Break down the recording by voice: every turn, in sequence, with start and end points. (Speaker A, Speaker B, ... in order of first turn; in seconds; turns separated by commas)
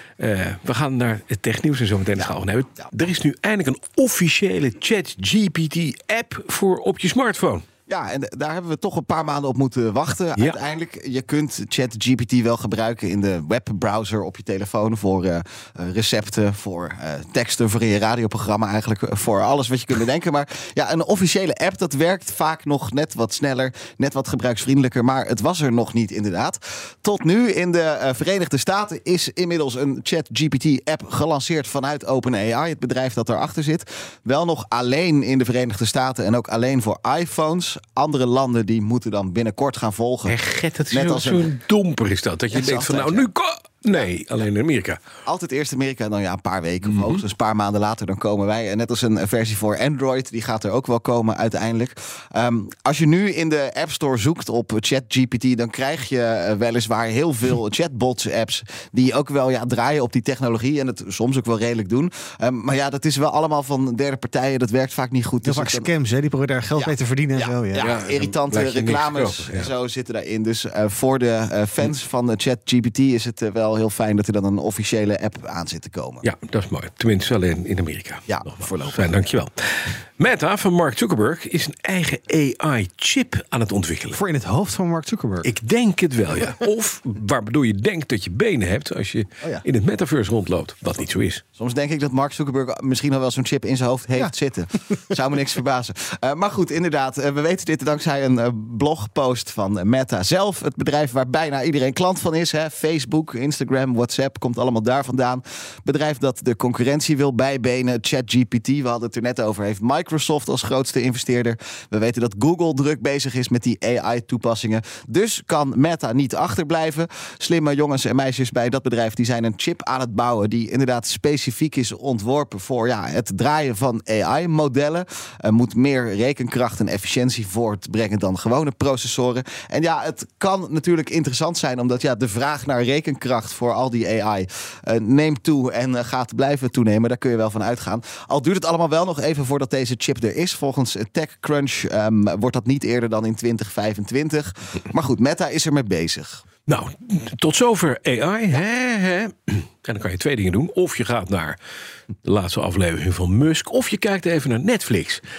Speaker A: 0.2-7.6, Speaker B: 7.9-40.4, Speaker A: 40.3-45.0, Speaker B: 40.9-41.5, Speaker B: 42.5-43.3, Speaker B: 45.2-65.9, Speaker A: 46.8-47.2, Speaker C: 65.4-67.9, Speaker B: 66.8-76.3, Speaker A: 67.8-69.7, Speaker A: 76.2-84.2, Speaker B: 78.3-79.2, Speaker C: 84.1-85.5, Speaker A: 85.4-91.4, Speaker B: 91.5-146.4, Speaker A: 146.7-151.6, Speaker A: 152.2-155.2